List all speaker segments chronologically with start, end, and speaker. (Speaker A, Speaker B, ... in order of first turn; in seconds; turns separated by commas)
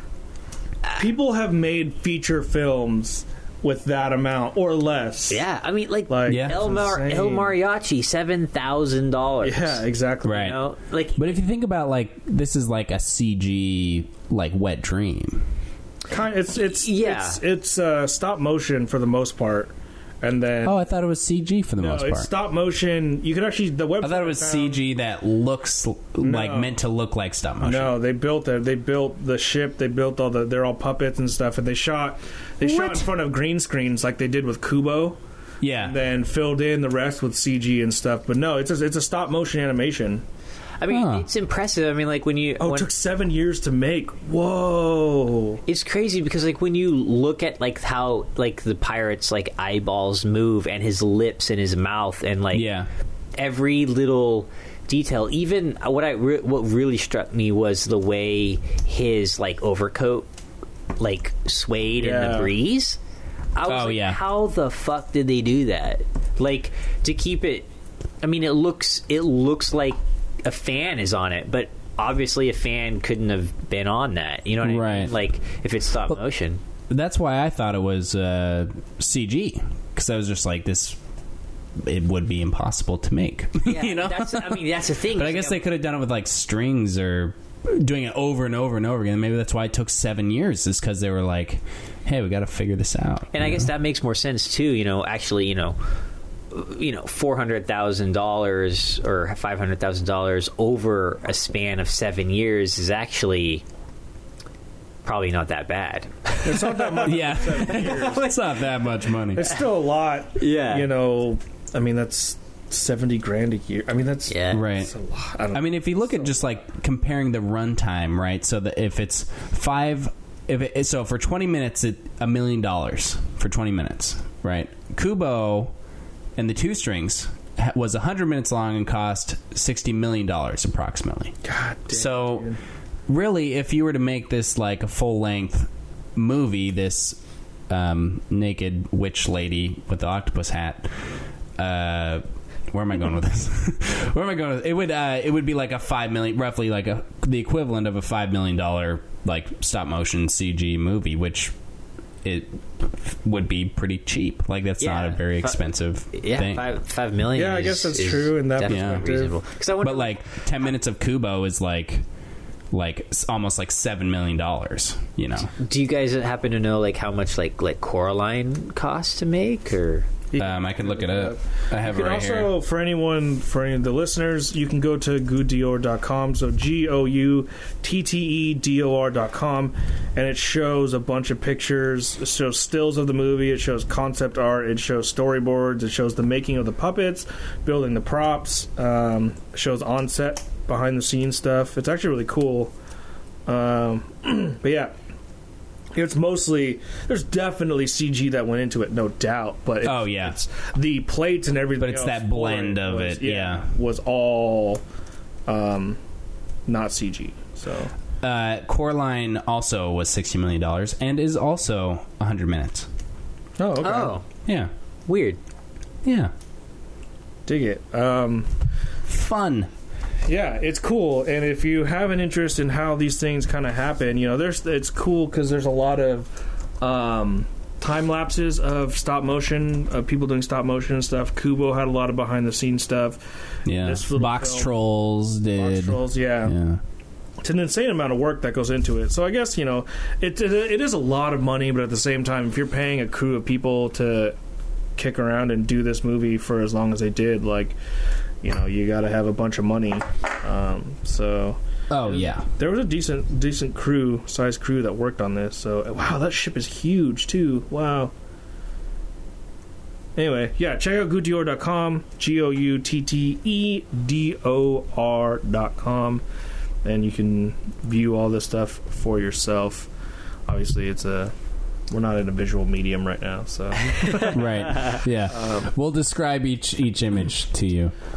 Speaker A: 1.0-5.4, Speaker B: 5.3-11.2, Speaker A: 6.1-7.6, Speaker C: 6.3-6.6, Speaker A: 9.4-10.6, Speaker C: 10.2-10.6, Speaker C: 11.2-15.4, Speaker A: 16.1-20.8, Speaker B: 16.7-17.4, Speaker C: 20.6-22.3, Speaker A: 21.8-24.8, Speaker C: 24.0-27.9, Speaker A: 26.2-26.8, Speaker A: 27.6-35.2, Speaker C: 32.6-33.1, Speaker C: 35.6-36.0, Speaker A: 35.8-40.2, Speaker B: 40.8-42.9, Speaker C: 40.9-41.3, Speaker A: 42.6-45.6, Speaker B: 45.7-52.7, Speaker C: 52.5-52.9, Speaker B: 53.4-60.3, Speaker B: 61.0-63.0, Speaker A: 62.0-62.5, Speaker B: 63.5-67.7, Speaker C: 63.7-64.2, Speaker B: 68.2-76.6, Speaker C: 74.6-75.2, Speaker C: 76.9-81.0, Speaker C: 81.8-93.7, Speaker B: 83.6-85.6, Speaker B: 93.3-95.8, Speaker B: 96.5-103.6, Speaker B: 105.0-108.5, Speaker A: 106.4-108.4, Speaker C: 107.0-109.6, Speaker A: 109.3-116.5, Speaker B: 110.4-110.9, Speaker B: 114.3-114.7, Speaker C: 114.5-114.9, Speaker C: 115.5-125.7, Speaker C: 126.4-131.4, Speaker A: 131.4-132.6, Speaker C: 131.9-132.5, Speaker C: 133.1-141.0, Speaker C: 141.6-151.5, Speaker C: 152.2-156.6, Speaker B: 154.8-160.2, Speaker A: 157.3-159.3, Speaker C: 158.7-159.1, Speaker C: 159.8-162.0, Speaker C: 162.7-165.5, Speaker B: 165.6-170.1, Speaker A: 170.3-192.7, Speaker C: 170.4-172.5, Speaker A: 193.5-194.9, Speaker A: 195.9-204.8, Speaker C: 199.8-200.4, Speaker C: 201.8-203.7, Speaker A: 205.5-206.0, Speaker A: 206.7-207.9, Speaker C: 208.2-212.9, Speaker A: 213.6-214.2, Speaker B: 213.8-214.2, Speaker C: 214.5-214.7, Speaker B: 215.1-215.4, Speaker C: 216.0-216.3, Speaker A: 217.5-218.5, Speaker C: 219.1-219.7, Speaker A: 220.3-233.2, Speaker C: 233.7-236.8, Speaker A: 233.8-234.7, Speaker A: 235.6-236.6, Speaker A: 237.4-244.4, Speaker A: 245.0-247.8, Speaker A: 248.4-258.1, Speaker C: 251.9-252.5, Speaker A: 260.2-266.2, Speaker A: 266.8-269.9, Speaker A: 270.5-271.3, Speaker A: 271.9-274.5, Speaker B: 274.0-275.0, Speaker C: 274.3-277.9, Speaker A: 275.3-275.7